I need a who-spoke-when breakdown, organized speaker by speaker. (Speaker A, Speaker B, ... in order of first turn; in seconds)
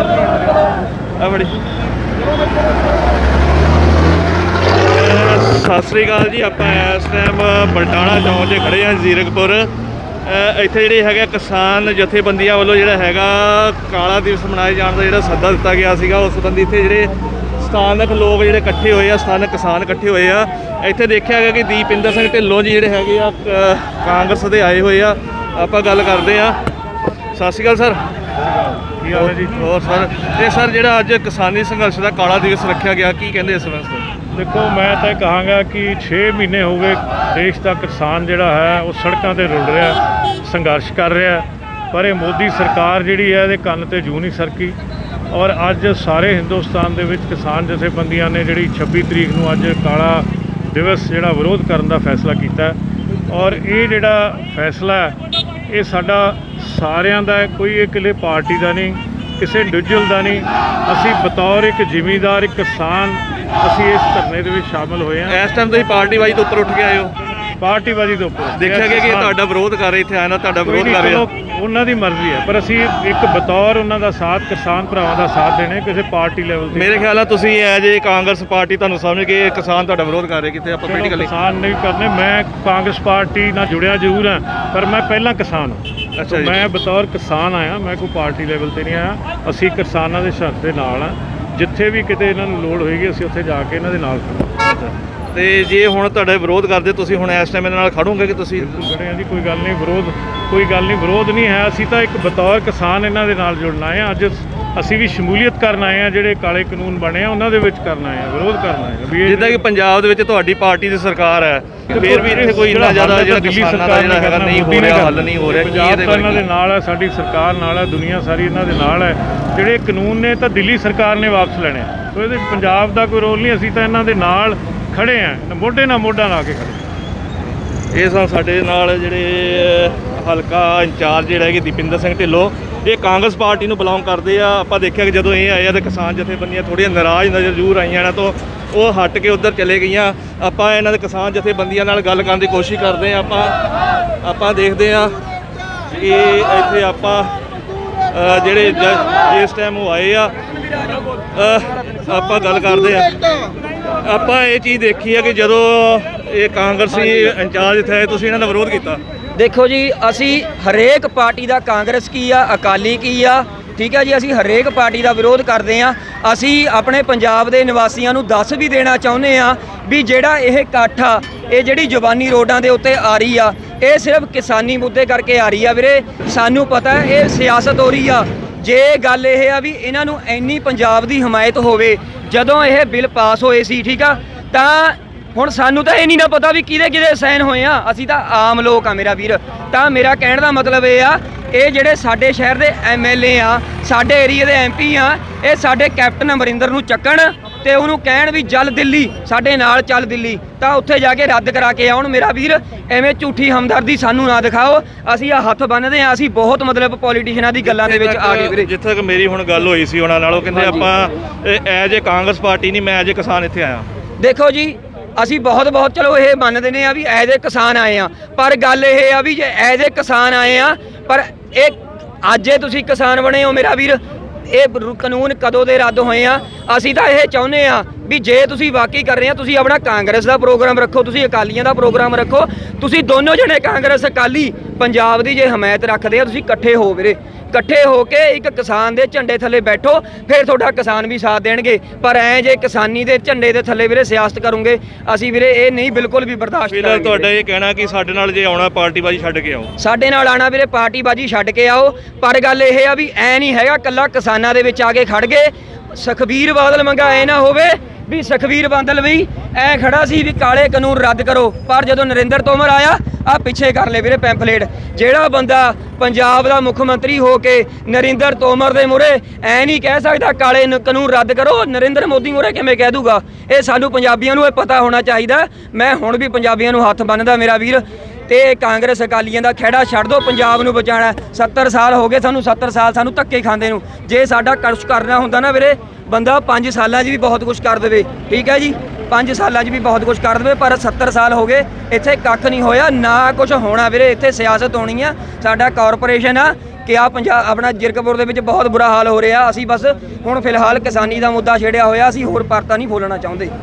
Speaker A: 1.2-1.6, 4.8-9.7, 10.2-26.6, 27.3-28.0, 29.1-34.1, 65.3-67.1, 68.5-71.2, 76.7-81.3, 86.2-86.6, 94.6-98.8, 109.2-116.4, 127.9-143.6, 144.2-145.2, 145.9-147.3, 148.1-150.3, 151.3-153.2, 154.0-159.0, 207.6-213.9, 246.7-249.7
Speaker B: 28.7-29.7, 34.3-44.8, 45.3-52.8, 53.3-55.2, 55.7-65.4, 67.6-69.3, 70.6-77.1, 80.8-94.5, 98.7-109.6, 111.9-126.8
Speaker C: 159.3-208.7, 210.5-210.9, 214.2-247.3, 249.8-303.5